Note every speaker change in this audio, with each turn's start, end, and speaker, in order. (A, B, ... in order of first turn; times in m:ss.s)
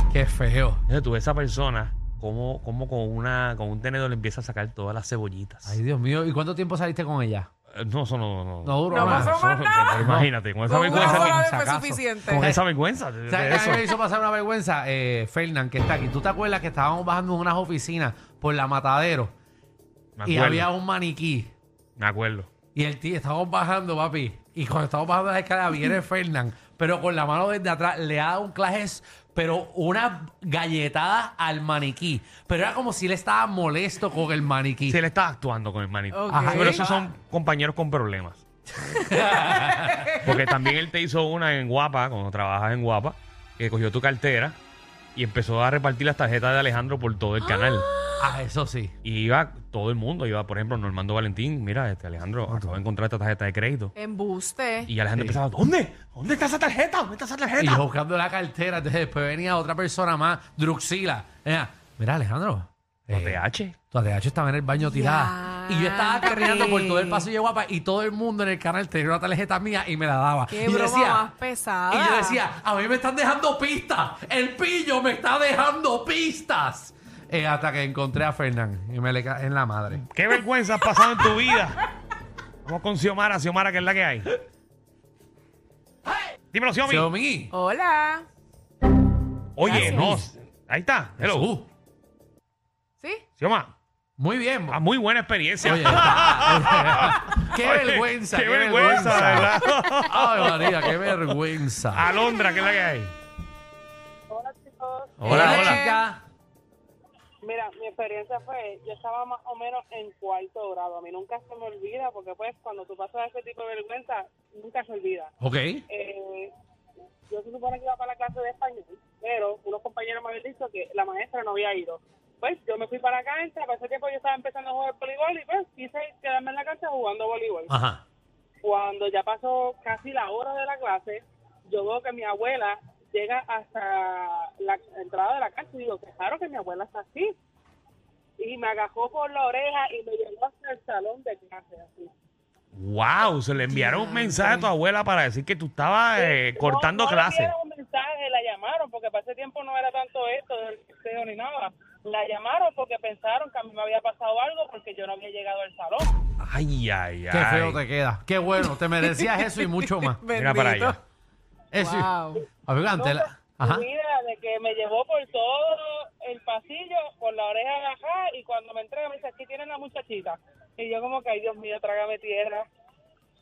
0:00.1-0:00.8 A
0:00.9-0:05.8 B
0:05.7-0:07.5 A
0:07.7-0:11.4 B
0:08.6-0:09.4 A
0:08.9-0:10.1 C
0:10.0-0:12.6 A
0:10.7-0:12.4 C
0:12.3-0:13.9 B
0:13.3-0:19.3 A
0:20.2-0:20.7 B
0:20.3-0:21.5 A
0:22.0-0:22.5 B
0:22.7-0:35.0 A
0:34.9-0:38.4 B
0:36.1-0:36.8 C
0:36.3-0:37.1 A
0:38.9-0:40.2 A
0:39.0-0:40.2 C
0:40.2-0:44.6 B
0:45.2-0:47.9 B
0:47.6-0:48.1 C
0:48.2-0:49.0 A
0:49.0-0:53.9 B
0:54.0-0:54.9 C
0:54.9-0:57.8 B
0:57.6-1:11.3 A
1:03.1-1:03.8 B
1:04.9-1:07.3 C
1:10.5-1:12.4 C
1:11.9-1:20.0 A
1:20.0-1:21.8 B
1:22.6-1:24.4 B
1:26.5-1:27.1 B
1:26.8-1:27.5 A
1:27.5-1:28.3 C
1:29.6-1:31.5 B
1:29.6-1:30.2 C
1:29.6-1:30.3 A
1:31.2-1:31.7 A
1:33.0-1:33.2 C
1:33.4-1:33.7 B
1:34.2-1:34.8 A
1:34.7-1:41.3 B
1:35.6-1:42.1 A
1:41.9-1:43.1 B
1:44.3-1:45.7 D
1:45.2-1:45.8 B
1:45.3-1:46.2 A
1:45.4-1:46.0 C
1:47.4-1:55.3 D
1:55.4-1:55.8 A
1:55.9-1:56.5 D
1:57.3-2:07.7 D
2:07.7-2:08.0 A
2:08.6-2:17.3 D
2:18.4-2:22.1 D
2:22.7-2:27.5 B
2:23.7-2:24.7 C
2:26.2-2:36.1 D
2:36.4-2:37.8 B
2:37.3-2:40.2 A
2:39.1-2:41.0 C
2:40.3-2:41.0 B
2:41.7-2:43.8 A
2:41.7-2:42.5 C
2:43.0-2:52.6 D